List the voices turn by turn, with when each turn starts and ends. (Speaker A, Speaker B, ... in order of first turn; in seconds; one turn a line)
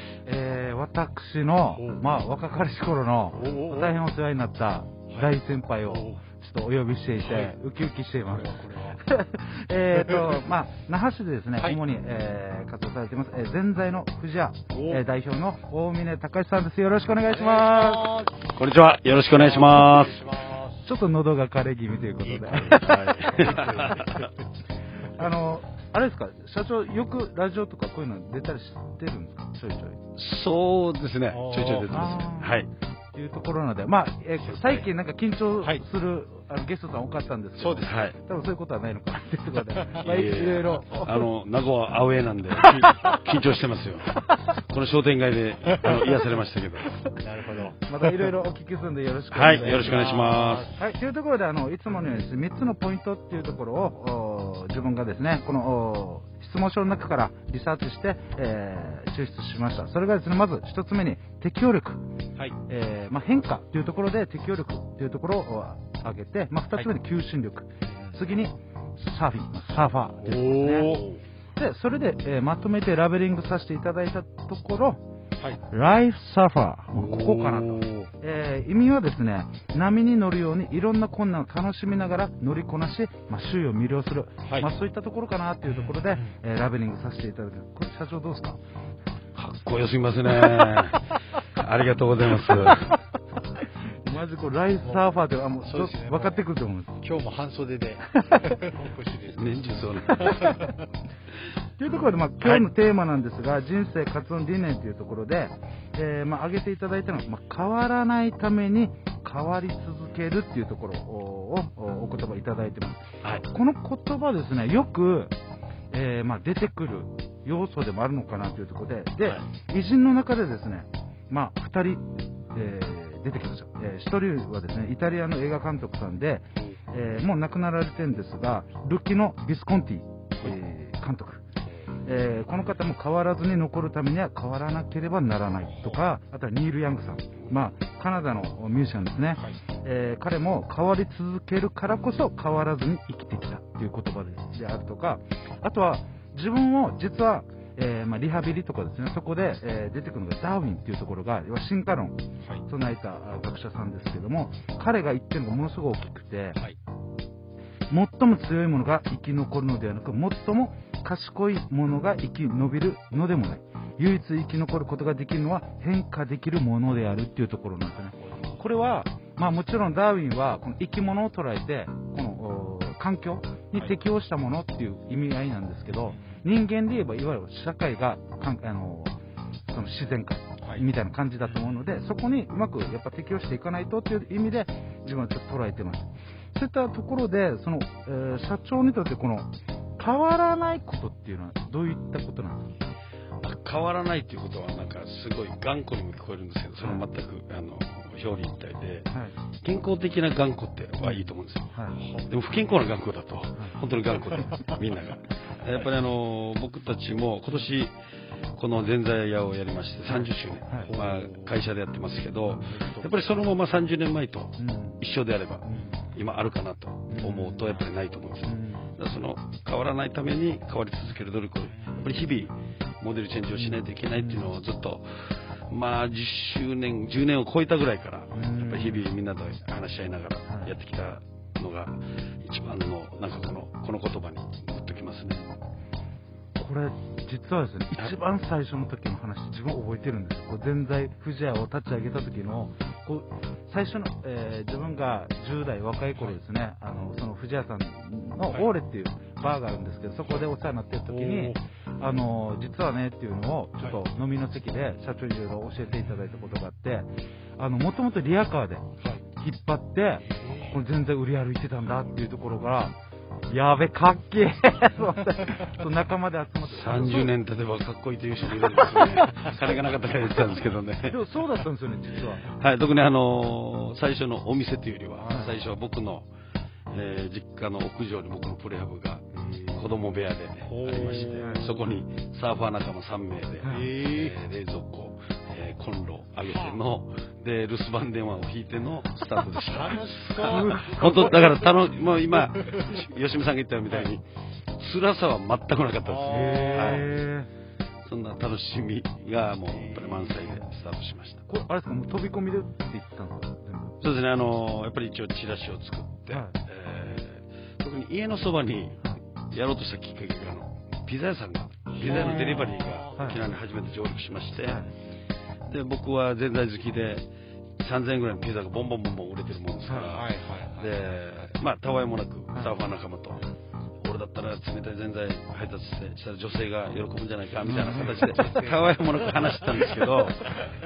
Speaker A: 0.2-8.5
Speaker B: 1.7-2.0
Speaker B: 3.3-3.9
Speaker B: 5.8-6.2
Speaker B: 7.2-7.5
Speaker B: 8.3-9.0
Speaker A: 9.0-18.1
Speaker B: 10.0-10.4
Speaker B: 14.7-15.1
Speaker B: 17.3-18.4
Speaker C: 18.5-20.3
Speaker B: 19.3-20.8
Speaker A: 20.8-22.9
Speaker B: 22.2-22.8
Speaker C: 22.5-24.2
Speaker B: 23.4-24.3
Speaker A: 25.1-30.0
Speaker C: 30.1-32.7
Speaker B: 31.3-32.2
Speaker A: 31.9-32.6
Speaker A: 33.1-41.1
Speaker C: 34.4-34.8
Speaker B: 37.6-38.0
Speaker C: 37.8-38.1
Speaker B: 39.7-40.2
Speaker C: 40.0-44.1
Speaker C: 44.7-47.0
Speaker B: 47.2-47.8
Speaker A: 47.9-50.1
Speaker C: 49.3-50.7
Speaker B: 49.5-50.8
Speaker A: 50.8-62.0
Speaker A: 62.7-71.0
Speaker B: 67.9-68.2
Speaker B: 70.2-71.2
Speaker A: 71.6-75.0
Speaker A: 75.7-88.6
Speaker B: 76.9-78.1
Speaker B: 85.7-86.3
Speaker C: 89.3-92.9
Speaker A: 94.0-96.9
Speaker B: 95.6-96.4
Speaker B: 97.0-100.7
Speaker C: 99.3-100.5
Speaker A: 101.8-115.3
Speaker A: 115.9-131.4
Speaker A: 132.1-156.6
Speaker B: 135.7-136.0
Speaker A: 157.9-179.2
Speaker B: 168.2-168.6
Speaker B: 175.9-176.4
Speaker A: 179.7-192.7
Speaker C: 193.4-199.1
Speaker C: 199.6-201.7
Speaker A: 201.1-201.9
Speaker B: 202.0-202.2
Speaker C: 202.3-207.9
Speaker C: 208.6-235.4
Speaker B: 210.7-211.6
Speaker B: 212.7-213.1
Speaker A: 214.6-215.0
Speaker A: 217.1-217.8
Speaker A: 218.5-218.9
Speaker B: 221.7-222.1
Speaker A: 223.5-224.4
Speaker A: 228.3-229.1
Speaker A: 236.6-258.8
Speaker B: 251.1-251.6
Speaker A: 259.4-262.9
Speaker B: 260.2-260.7
Speaker A: 263.5-267.3
Speaker C: 266.6-271.2
Speaker A: 271.1-272.4
Speaker C: 272.5-276.3
Speaker C: 276.9-294.2
Speaker B: 280.7-281.7
Speaker B: 283.6-284.3
Speaker B: 286.4-286.7
Speaker B: 289.6-291.7
Speaker A: 290.6-291.1
Speaker B: 292.3-292.9
Speaker C: 294.8-297.0
Speaker B: 296.0-297.0
Speaker A: 296.3-297.5
Speaker C: 298.0-301.4
Speaker B: 299.7-300.6
Speaker A: 301.5-303.9
Speaker C: 304.0-314.8
Speaker B: 311.9-313.4
Speaker C: 315.7-317.2
Speaker C: 317.8-323.4
Speaker B: 320.1-320.9
Speaker C: 324.0-330.6
Speaker A: 327.7-328.1
Speaker B: 328.0-328.9